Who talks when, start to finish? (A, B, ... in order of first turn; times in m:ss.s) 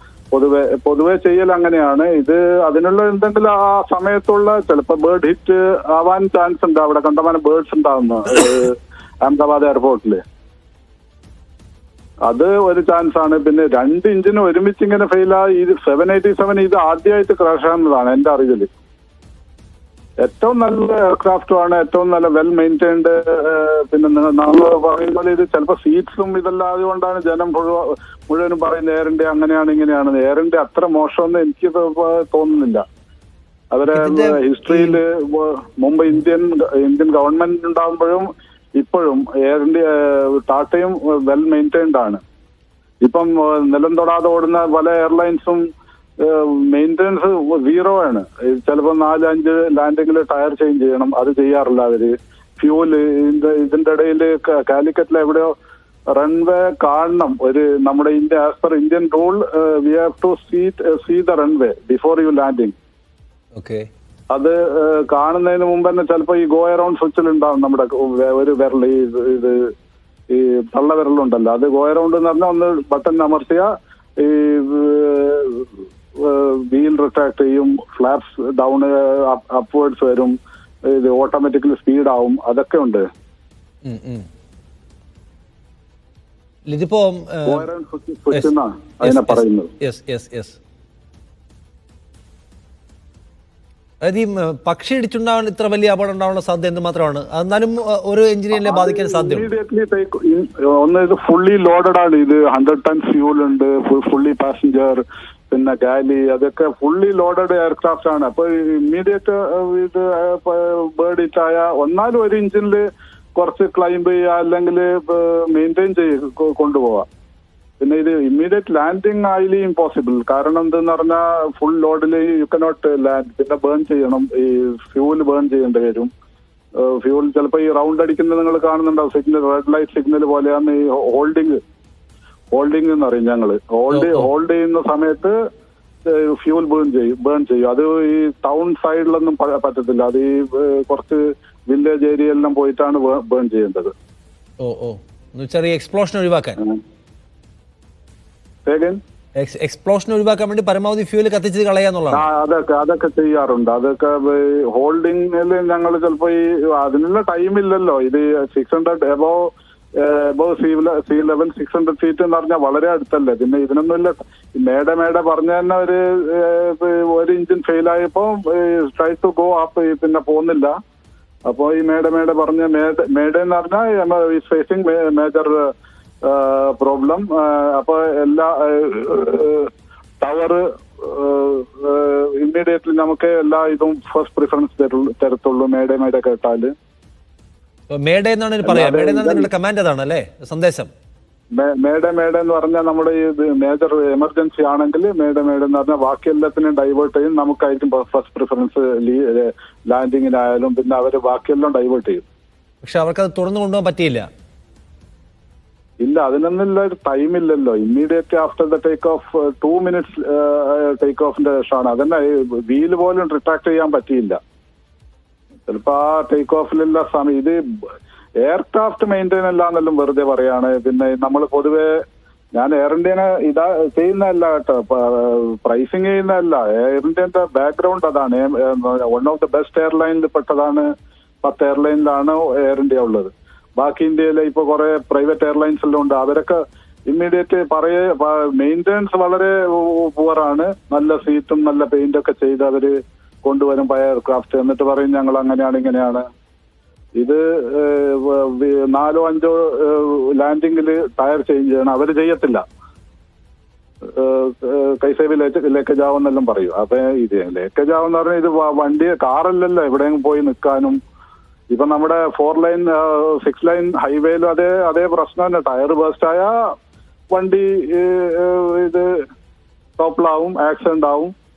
0:00.3-0:10.2 A
0:12.2-0:18.7 A
0:20.2-0:32.8 A
0:33.7-0:38.2 A
0:33.9-0:35.0 B
0:38.8-0:42.2 A
0:43.0-0:45.6 A
0:46.2-0:55.5 A
0:56.1-1:02.7 A
1:03.5-1:03.8 B
1:04.3-1:09.6 A
1:10.3-1:13.7 A
1:14.2-1:20.3 A
1:20.8-1:23.0 A
1:23.8-1:24.2 B
1:26.7-1:27.6 B
1:27.4-1:29.7 A
1:29.0-1:30.6 B
1:34.0-1:39.5 B
1:38.5-1:52.8 A
1:53.3-1:57.1 A
1:57.8-2:06.1 A
2:06.8-2:11.6 A
2:12.5-2:15.3 A
2:13.9-2:14.3 B
2:16.0-2:23.9 A
2:24.6-2:26.6 B
2:28.6-2:29.0 A
2:29.4-2:32.2 B
2:32.1-2:39.4 A
2:40.0-2:50.7 A
2:51.5-2:55.6 A
2:56.2-2:59.7 A
3:00.2-3:06.7 A
3:07.9-3:10.9 B
3:08.6-3:09.5 A
3:11.5-3:22.2 A
3:22.8-3:24.2 B
3:26.0-3:34.4 A
3:35.7-3:37.6 A
3:38.4-3:41.9 A
3:42.5-3:50.9 A
3:51.4-3:56.6 A
3:57.1-4:02.9 A
4:03.4-4:06.2 A
4:07.2-4:12.6 A
4:14.1-4:21.0 A
4:21.7-4:26.5 A
4:27.3-4:29.1 A
4:30.0-4:31.3 A